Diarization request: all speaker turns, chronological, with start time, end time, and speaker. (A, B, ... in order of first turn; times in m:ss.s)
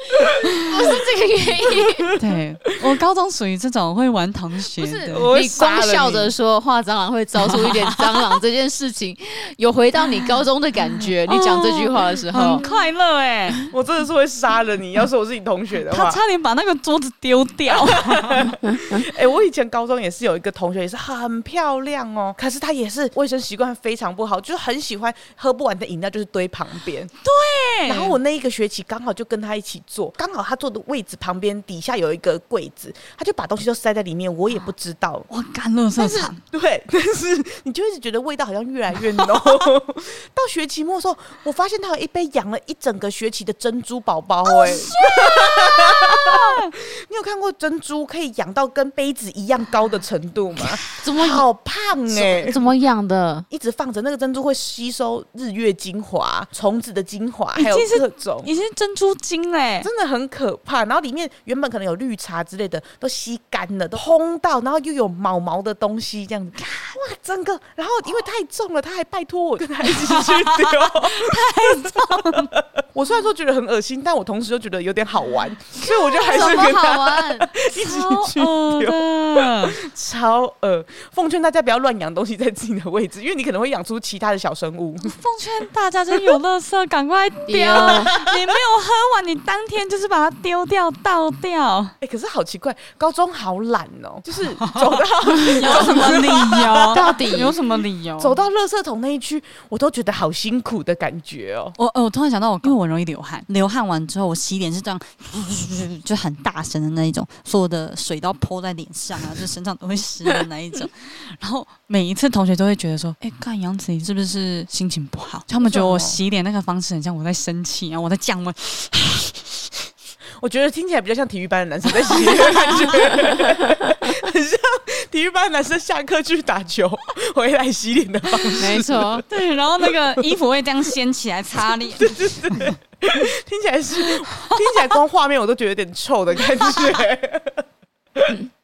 0:00.6-0:02.1 A
0:02.2-0:05.2 B
0:04.8-0:12.6 A
0:05.1-0:06.3 C
0:07.4-0:08.2 B
0:11.2-0:13.7 B
0:12.4-0:12.7 C
0:13.7-0:16.2 C
0:15.9-0:18.5 B
0:17.7-0:27.1 C
0:27.2-0:28.2 B
0:27.9-0:35.3 C
0:35.3-0:36.4 B
0:36.0-0:52.6 C
0:39.2-0:39.5 B
0:44.5-0:46.7 B
0:51.0-0:51.4 A
0:52.1-0:53.5 A
0:53.5-0:58.5 C
0:57.5-0:59.9 B
0:59.8-1:25.2 C
1:09.8-1:12.5 B
1:15.9-1:19.8 B
1:15.9-1:17.4 A
1:25.0-1:31.9 B
1:27.5-1:28.1 A
1:27.8-1:28.3 C
1:32.0-1:37.5 C
1:34.6-1:38.4 B
1:35.8-1:36.2 A
1:36.8-1:37.6 A
1:38.2-1:41.8 C
1:41.8-1:59.4 B
1:55.6-1:56.2 C
2:00.4-2:09.2 C
2:02.1-2:02.9 B
2:08.6-2:09.2 A
2:09.3-2:12.7 B
2:11.9-2:17.6 C
2:14.0-2:14.9 B